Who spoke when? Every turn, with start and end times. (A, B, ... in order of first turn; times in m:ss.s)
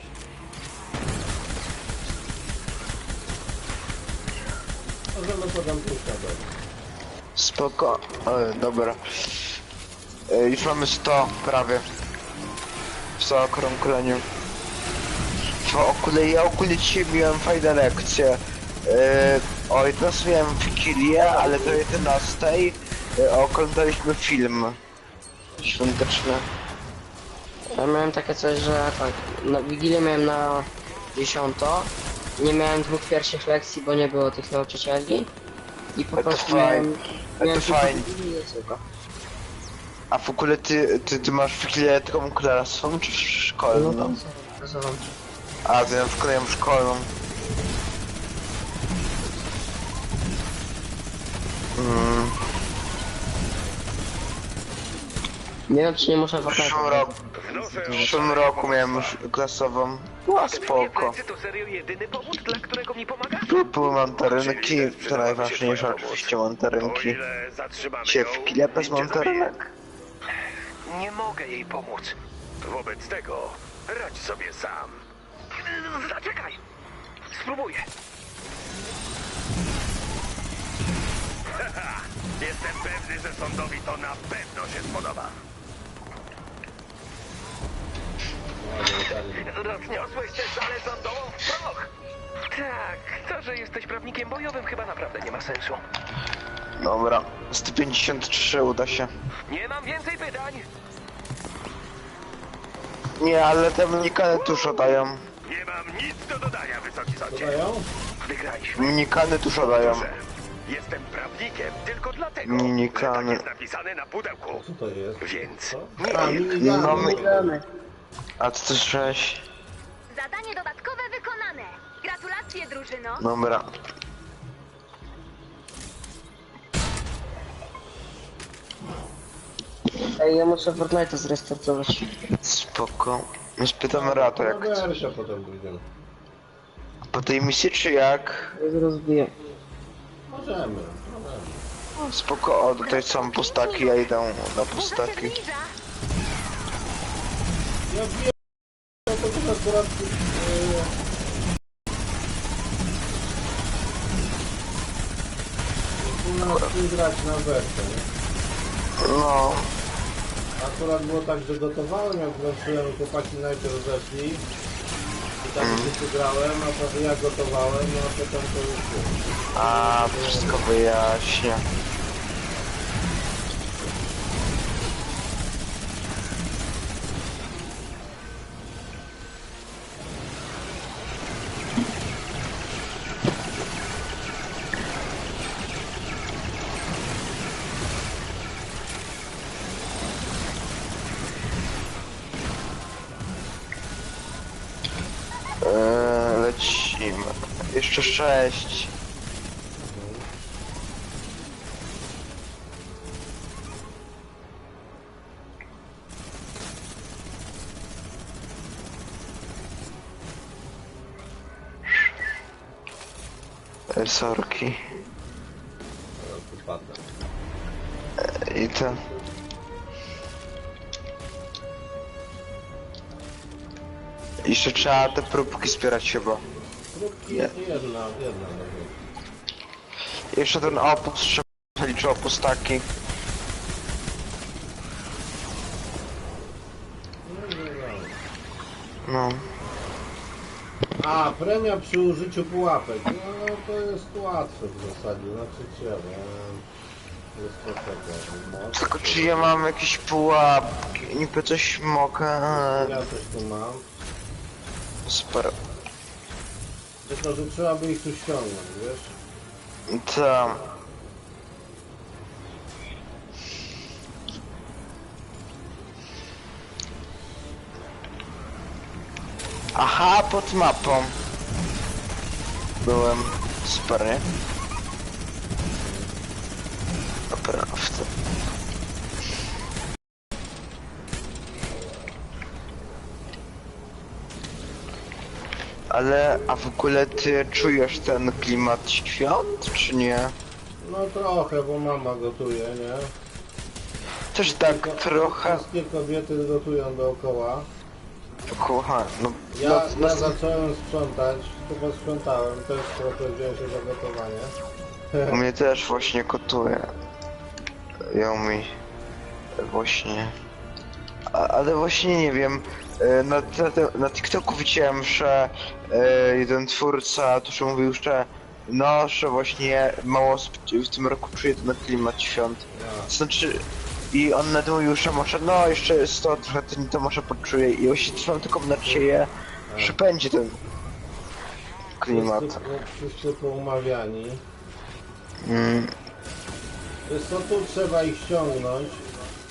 0:05.1-0:06.5 A
0:07.4-0:09.6 B
0:10.3-0:11.8 B
0:13.2-0:14.2 B
0:15.6-0:24.8 B
0:25.6-0:26.5 B
0:27.7-0:35.3 C
0:36.0-0:38.8 C
0:36.2-0:38.1 B
0:40.1-0:44.2 B
0:43.7-0:45.1 C
0:45.7-0:47.1 B
0:51.8-0:52.4 B
0:55.7-0:58.1 C
0:56.4-0:57.1 B
0:57.3-0:59.2 D
0:58.0-1:01.2 B
1:00.4-1:03.6 D
1:03.4-1:07.2 B
1:04.3-1:09.5 D
1:08.0-1:09.6 B
1:10.8-1:15.0 D
1:15.5-1:16.6 D
1:17.3-1:17.9 D
1:21.6-1:25.4 D
1:28.6-1:29.6 A
1:29.3-1:31.9 D
1:32.5-1:35.8 D
1:36.8-1:39.1 B
1:39.5-1:40.7 D
1:43.2-1:45.2 B
1:44.3-1:44.9 D
1:45.4-1:47.6 D
1:47.3-1:47.9 A
1:48.2-1:49.0 D
1:48.7-1:50.1 B
1:49.6-1:54.6 D
1:52.4-1:53.4 B
1:54.5-1:57.6 A
1:55.2-1:56.6 D
1:56.3-1:57.4 B
1:56.7-1:57.6 C
1:58.4-1:59.4 B
2:00.1-2:03.2 E
2:03.2-2:03.7 B
2:10.1-2:12.1 C
2:12.4-2:15.0 B
2:13.9-2:15.8 A
2:17.1-2:18.5 B
2:18.6-2:19.3 C
2:20.3-2:21.7 A
2:22.0-2:25.3 B
2:22.8-2:24.1 E
2:24.7-2:25.7 E
2:27.9-2:28.4 A
2:29.0-2:30.9 A
2:36.0-2:38.1 A
2:39.0-2:39.7 B
2:40.6-2:44.5 A
2:45.4-2:50.6 A
2:45.6-2:45.9 B
2:49.5-2:51.6 B
3:15.6-3:18.9 B
3:19.8-3:20.3 A
3:33.9-3:34.8 B
3:36.2-3:37.0 A
3:38.2-3:39.0 B
3:44.4-3:46.4 B
3:46.9-3:49.0 A
3:50.3-3:52.9 B
3:57.2-3:58.2 A
3:59.1-3:59.4 B
4:01.0-4:06.6 A
4:07.3-4:09.6 A
4:08.8-4:13.0 B
4:12.6-4:13.8 A
4:15.1-4:15.5 B
4:17.0-4:19.2 A
4:19.9-4:20.6 B
4:29.8-4:31.2 B
4:32.8-4:34.3 B
4:35.8-4:36.1 A
4:37.3-4:38.1 B
4:45.9-4:50.4 B
4:50.8-4:53.1 A
4:54.3-4:55.6 B
4:54.4-4:57.7 A
4:58.5-5:00.4 B
4:59.5-5:04.6 A
5:05.1-5:05.4 A
5:05.3-5:06.9 B
5:08.1-5:08.7 B
5:09.6-5:10.3 B
5:11.3-5:30.6 B
5:22.7-5:23.1 A
5:29.7-5:30.0 A
5:32.0-5:32.6 B
5:32.1-5:34.4 A
5:35.4-5:35.9 B
5:37.1-5:39.1 A